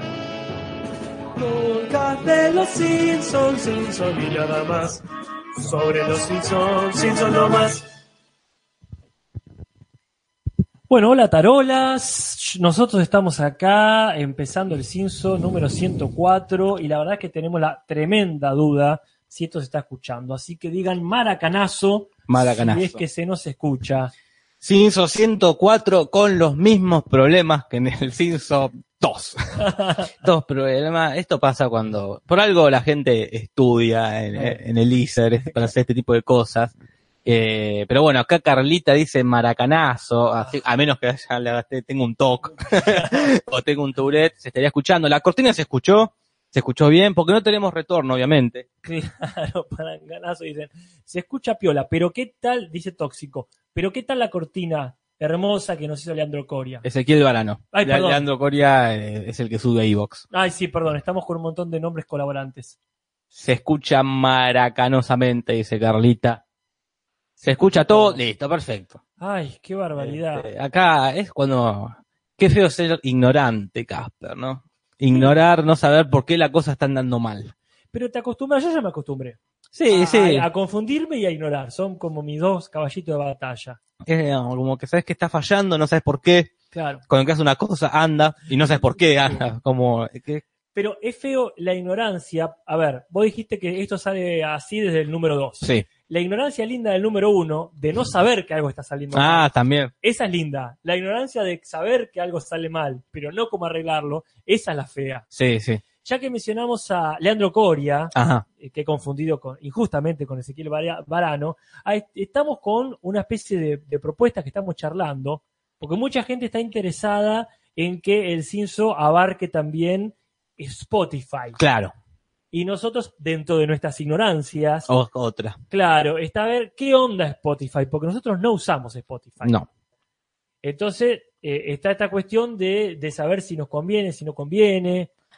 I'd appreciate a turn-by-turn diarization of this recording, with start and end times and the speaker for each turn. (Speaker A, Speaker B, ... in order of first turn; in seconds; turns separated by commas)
Speaker A: 1.4-5.0, Speaker A: 5.6-7.8, Speaker B: 10.9-24.1, Speaker C: 22.3-23.0, Speaker C: 24.6-36.7, Speaker B: 29.6-30.1, Speaker B: 34.3-34.6, Speaker C: 37.2-48.6, Speaker B: 42.5-43.3, Speaker B: 48.8-56.9, Speaker C: 56.8-60.2, Speaker B: 57.7-58.2, Speaker B: 60.3-62.8, Speaker C: 63.3-66.4, Speaker B: 67.4-68.2, Speaker C: 67.4-69.0, Speaker B: 69.2-70.5, Speaker C: 70.0-77.5, Speaker B: 75.1-75.3, Speaker B: 77.9-83.8, Speaker C: 79.7-80.5, Speaker C: 84.0-86.5, Speaker B: 86.7-87.0, Speaker C: 87.1-90.4, Speaker B: 88.7-89.4, Speaker B: 90.7-105.2, Speaker C: 95.6-95.9, Speaker C: 99.1-99.9, Speaker C: 105.3-105.8, Speaker B: 106.0-121.6, Speaker C: 108.1-108.4, Speaker C: 121.6-121.9, Speaker B: 122.5-124.9, Speaker C: 124.9-125.6, Speaker B: 125.7-129.6, Speaker B: 130.6-135.1